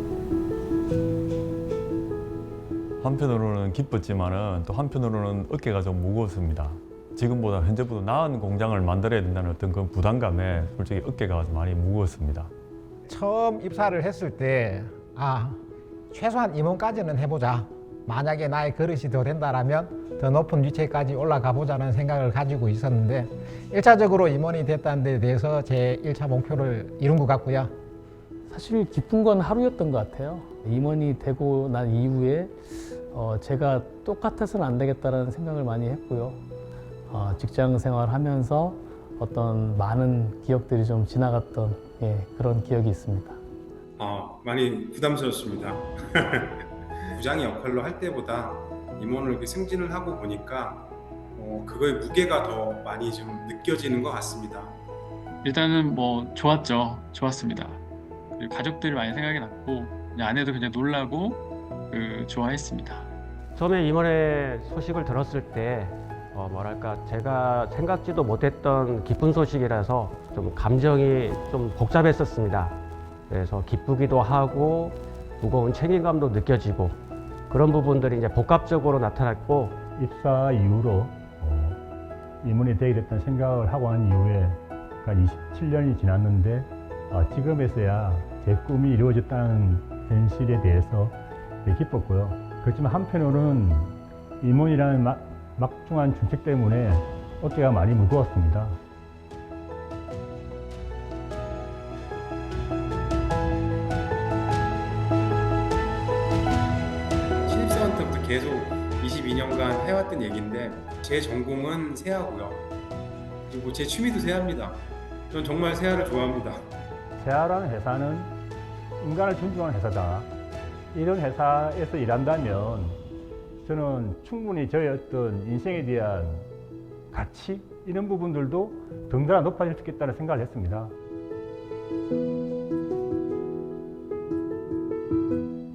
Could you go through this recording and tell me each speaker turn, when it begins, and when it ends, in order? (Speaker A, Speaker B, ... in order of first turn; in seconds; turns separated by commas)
Speaker A: 3.0-12.5, Speaker B: 13.1-27.7, Speaker C: 28.5-36.4, Speaker C: 37.1-43.4, Speaker D: 44.0-54.8, Speaker E: 55.4-57.8, Speaker E: 58.4-63.1, Speaker F: 63.5-72.8, Speaker F: 73.3-77.0, Speaker F: 77.5-79.8, Speaker G: 80.0-81.8, Speaker G: 82.4-98.8, Speaker D: 107.4-112.7, Speaker D: 113.5-116.6, Speaker G: 117.2-118.3, Speaker G: 119.0-120.3, Speaker G: 120.9-123.0, Speaker G: 123.6-126.5, Speaker G: 127.1-130.9